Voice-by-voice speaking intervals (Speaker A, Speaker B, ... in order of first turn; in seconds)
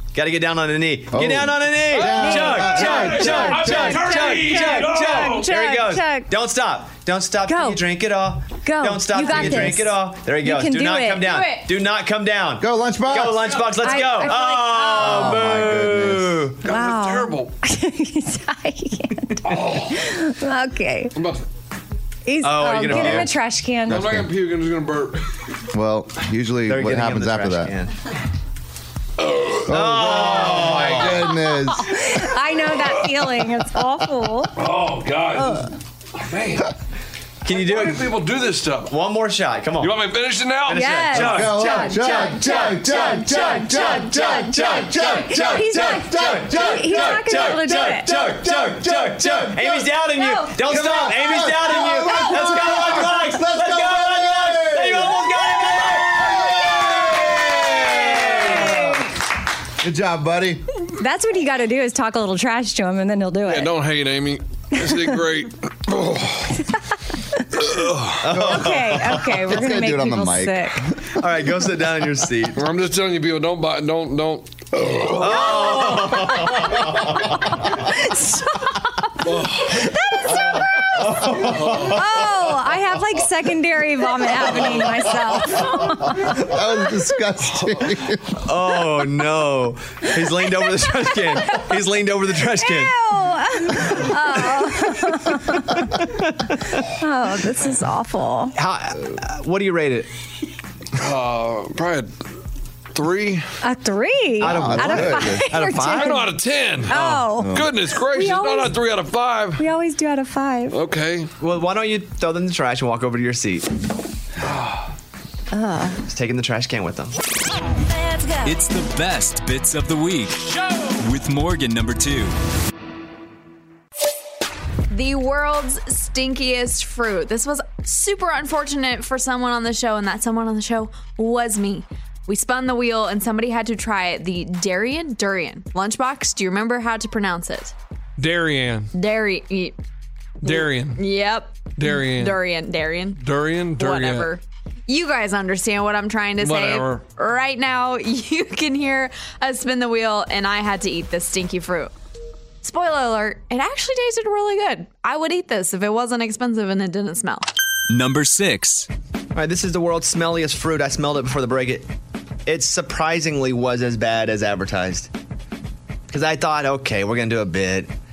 Speaker A: 0.1-16.7, 22.4-23.4, 26.7-27.9, 29.7-31.2, 37.4-38.1, 38.9-40.0, 40.7-58.8, 68.2-69.2, 71.1-72.6, 75.0-77.2, 80.5-82.0, 88.4-92.9, 98.5-100.1, 104.4-106.2, 111.4-113.7, 116.1-117.2, 159.3-161.9, 162.5-165.1, 166.1-167.9
Speaker B: 1.1-3.6, 12.6-13.6, 14.9-16.5, 23.9-24.3, 25.7-27.7, 29.7-32.0, 41.2-49.9, 50.5-59.0, 59.8-60.6, 68.3-70.9, 85.6-88.2, 104.4-105.5, 107.3-107.7
Speaker C: 1.9-5.5, 16.6-17.5, 19.4-20.0, 21.1-21.5, 23.9-25.4, 29.2-31.3, 34.5-36.7, 37.5-38.9, 39.8-41.7, 63.5-66.6, 67.5-68.3, 72.5-76.2, 79.2-79.8, 81.6-81.9, 101.0-102.1, 102.9-103.5, 105.9-109.6, 110.7-111.3, 114.4-114.8, 138.2-138.9, 140.4-141.0, 141.8-142.4, 143.2-144.3, 146.4-147.0
Speaker D: 2.0-6.3, 7.5-7.8, 8.6-11.4, 13.8-15.6, 16.6-21.1, 22.3-24.1, 31.8-34.5, 35.4-35.7, 40.7-48.2, 50.2-50.5, 52.0-52.8, 58.4-59.0, 61.0-63.7, 64.8-65.2, 68.4-70.8, 75.7-76.5, 77.8-81.1, 81.8-86.6, 92.6-95.9, 97.0-98.5, 103.6-106.3, 106.9-108.8, 109.6-110.8, 115.5-116.0, 117.9-118.5
Speaker E: 11.2-11.7, 124.9-137.8, 138.9-139.8, 140.4-143.2, 143.8-151.9, 152.6-157.5
Speaker F: 118.4-122.4, 157.9-158.9